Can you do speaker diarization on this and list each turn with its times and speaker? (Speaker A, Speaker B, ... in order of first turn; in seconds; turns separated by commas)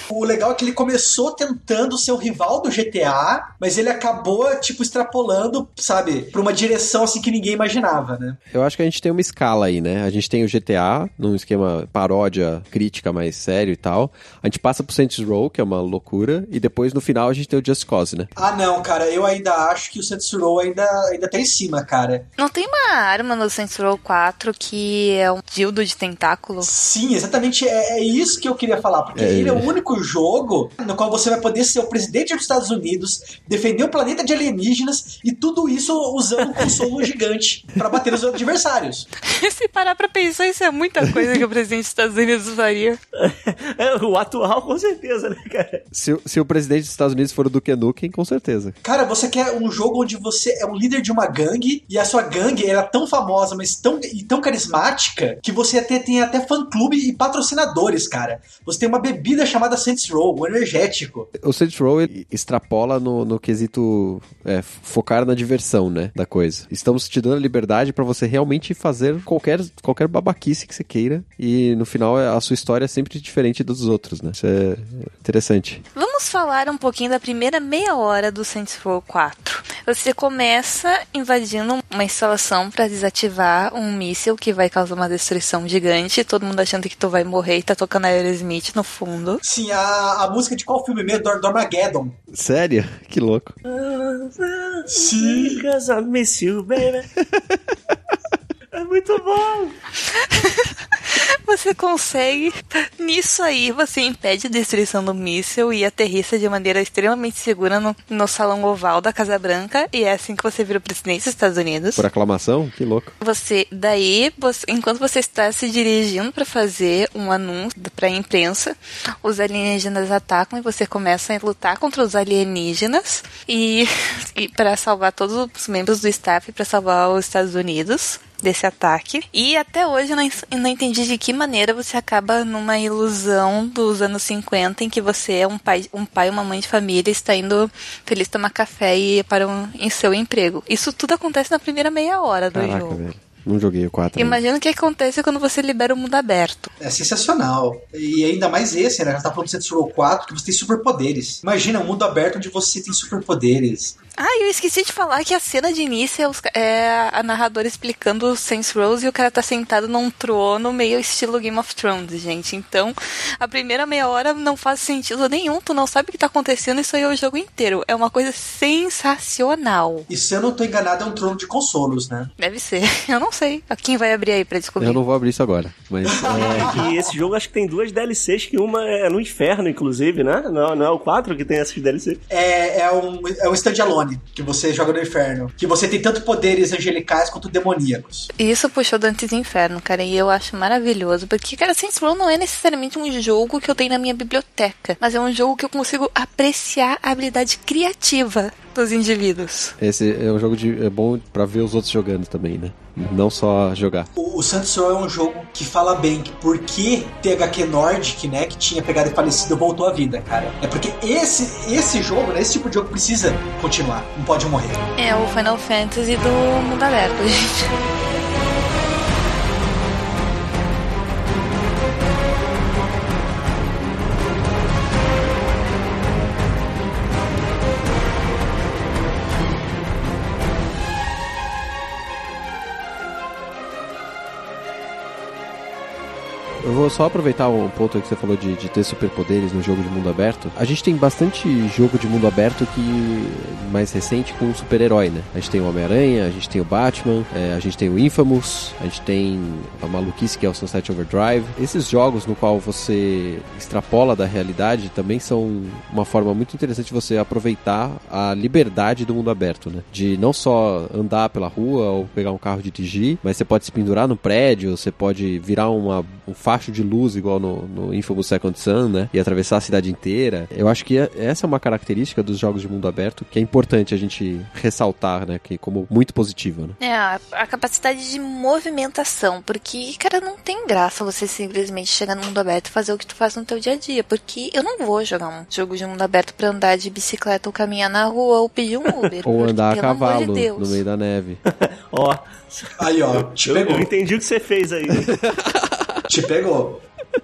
Speaker A: 0.1-8.4, Speaker B: 8.5-18.3, Speaker A: 18.4-22.3, Speaker C: 22.4-26.7, Speaker A: 26.6-39.1, Speaker B: 29.1-29.7, Speaker D: 36.6-36.9, Speaker C: 39.3-43.0, Speaker D: 43.2-45.8, Speaker B: 45.9-48.8, Speaker A: 48.8-61.3, Speaker B: 61.4-75.8, Speaker C: 76.0-89.4, Speaker A: 89.4-92.2, Speaker B: 92.3-93.5, Speaker D: 93.7-97.1, Speaker A: 94.9-95.6, Speaker B: 97.2-97.6, Speaker D: 98.7-99.8, Speaker C: 100.2-112.0, Speaker B: 112.0-113.1, Speaker C: 113.2-143.0, Speaker B: 142.5-144.4, Speaker C: 144.2-146.7, Speaker A: 146.8-154.0, Speaker C: 154.2-170.1, Speaker A: 170.1-172.3, Speaker C: 172.4-175.0, Speaker B: 174.8-176.9, Speaker A: 176.1-177.2, Speaker D: 176.3-182.2, Speaker A: 182.3-188.3, Speaker C: 188.4-199.8, Speaker B: 199.8-204.1, Speaker A: 204.2-214.9, Speaker C: 215.0-217.7, Speaker B: 236.6-276.8, Speaker C: 276.8-290.8, Speaker B: 289.2-291.4, Speaker D: 291.5-295.2, Speaker A: 292.8-293.9, Speaker B: 294.9-296.1, Speaker A: 296.1-296.8